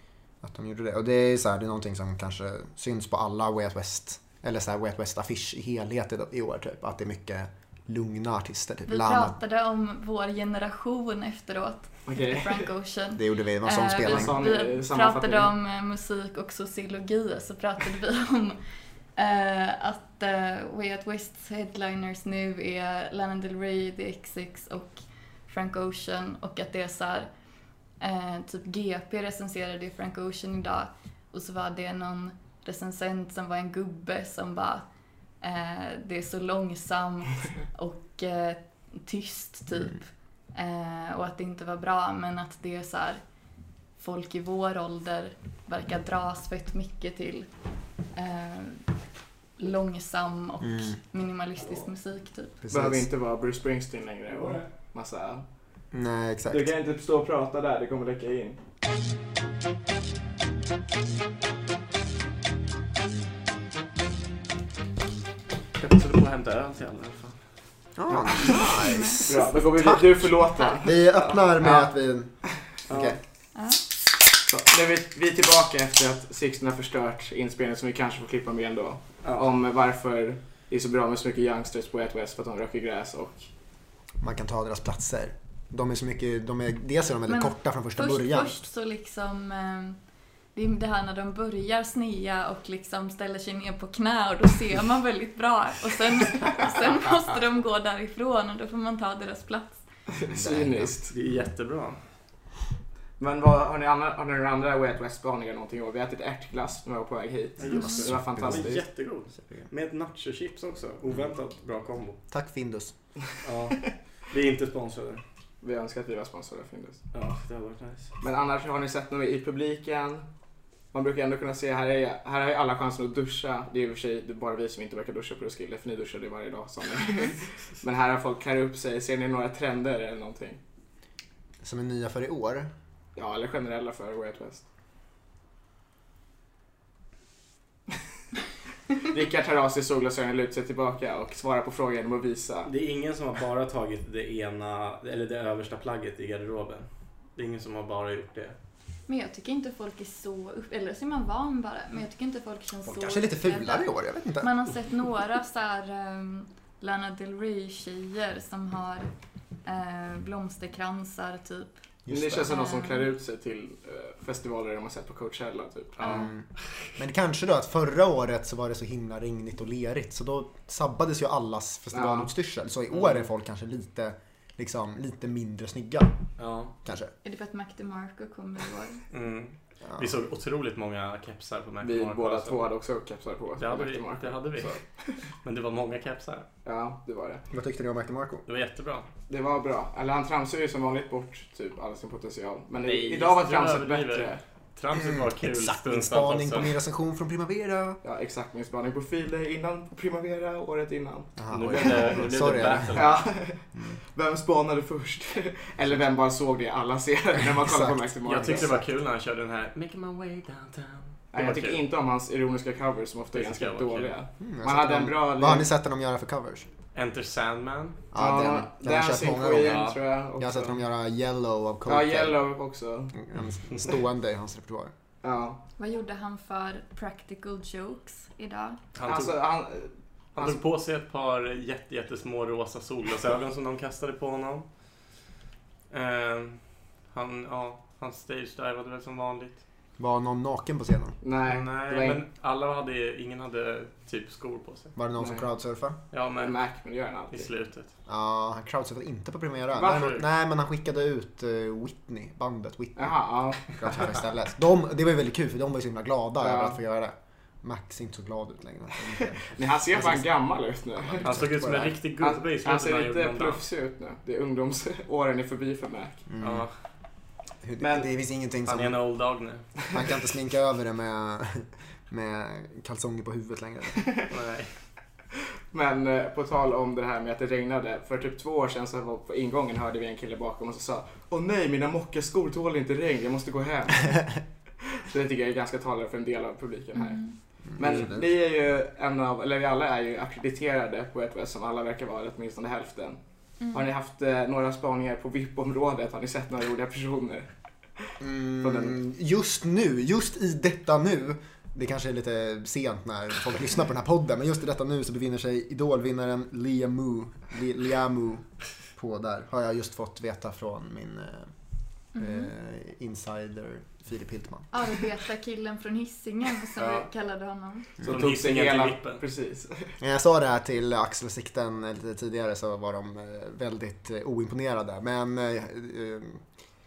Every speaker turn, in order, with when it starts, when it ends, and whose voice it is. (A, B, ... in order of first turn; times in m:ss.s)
0:00.4-0:09.3 A
0:08.9-0:18.6 B
0:12.1-0:12.7 C
0:13.1-0:14.4 A
0:14.0-0:15.5 C
0:19.2-0:27.3 B
0:28.0-0:34.8 B
0:35.4-0:43.2 B
0:44.0-0:47.5 B
0:48.1-0:48.8 B
0:49.6-0:52.6 B
0:50.6-0:51.0 A
0:51.6-0:51.9 D
0:52.6-0:53.1 A
0:52.7-0:55.4 C
0:54.3-0:54.6 D
0:55.9-0:56.7 A
0:56.5-0:58.6 C
1:05.8-1:07.4 D
1:08.0-1:13.2 A
1:08.4-1:09.3 B
1:09.3-1:11.9 C
1:12.9-1:13.2 D
1:13.5-1:13.8 B
1:14.5-1:23.4 C
1:24.2-1:28.6 A
1:27.3-1:30.0 B
1:30.5-1:39.8 B
1:40.1-1:41.1 C
1:40.3-1:40.9 A
1:41.1-1:42.0 D
1:43.2-1:48.8 C
1:47.6-1:48.8 A
1:47.6-1:52.2 D
1:47.7-1:48.0 B
1:49.4-1:49.7 A
1:52.3-1:52.9 A
1:53.4-1:55.2 D
1:55.6-1:57.0 C
1:57.1-1:58.1 D
1:58.2-2:00.2 C
2:00.9-2:10.6 C
2:11.6-2:12.7 A
2:13.2-2:14.6 C
2:19.1-2:22.7 C
2:22.6-2:28.6 D
2:29.1-2:39.1 B
2:32.8-2:34.7 A
2:39.6-2:41.8 B
2:42.0-2:42.5 A
2:42.1-2:46.3 C
2:42.4-2:43.1 B
2:46.0-2:46.3 B
2:46.0-2:56.2 A
2:51.9-2:52.3 C
2:52.9-2:53.2 D
2:56.4-2:56.7 D
2:56.8-2:57.1 A
2:57.2-2:59.0 B
2:59.1-3:02.6 D
2:59.8-3:00.2 A
3:01.8-3:04.8 C
3:03.6-3:04.8 D
3:05.4-3:06.5 D
3:06.6-3:07.4 C
3:07.5-3:08.4 A
3:08.5-3:09.1 D
3:09.3-3:14.4 C
3:12.8-3:16.7 D
3:14.9-3:18.0 A
3:18.0-3:22.2 C
3:21.4-3:23.1 A
3:21.5-3:23.2 D
3:22.9-3:28.7 C
3:23.7-3:24.0 A
3:27.6-3:28.8 A
3:28.2-3:31.8 D
3:31.3-3:35.7 C
3:33.3-3:34.1 D
3:34.4-3:36.7 A
3:36.9-3:38.0 D
3:38.1-3:42.4 A
3:38.1-3:40.8 C
3:39.5-3:40.0 D
3:41.9-3:43.1 C
3:43.1-3:44.9 A
3:45.2-3:45.6 C
3:45.8-3:48.8 B
3:48.9-3:49.4 D
3:49.0-3:50.6 C
3:50.3-3:54.7 D
3:55.9-3:59.6 D
4:00.0-4:01.2 A
4:01.2-4:02.2 C
4:01.5-4:04.9 D
4:05.0-4:06.0 A
4:05.2-4:05.4 C
4:06.1-4:06.6 D
4:06.4-4:07.5 C
4:07.3-4:07.9 D
4:08.1-4:20.2 A
4:09.8-4:10.2 C
4:09.9-4:10.2 D
4:13.0-4:13.8 C
4:16.4-4:16.8 C
4:19.5-4:21.4 C
4:21.1-4:22.0 A
4:21.2-4:23.6 D
4:22.2-4:26.2 C
4:26.3-4:26.7 A
4:26.4-4:26.7 D
4:27.6-4:29.0 A
4:27.8-4:28.1 C
4:28.7-4:29.7 D
4:29.9-4:34.1 A
4:34.3-4:34.7 D
4:35.7-4:44.4 C
4:45.0-4:53.2 C
4:47.0-4:47.4 B
4:47.7-4:48.3 A
4:53.6-4:53.9 B
4:53.7-4:59.0 C
4:58.2-5:11.5 A
5:12.1-5:12.5 B
5:12.2-5:15.0 A
5:14.7-5:17.9 B
5:16.8-5:17.0 A
5:18.0-5:19.2 D
5:18.0-5:19.9 C
5:20.0-5:26.4 A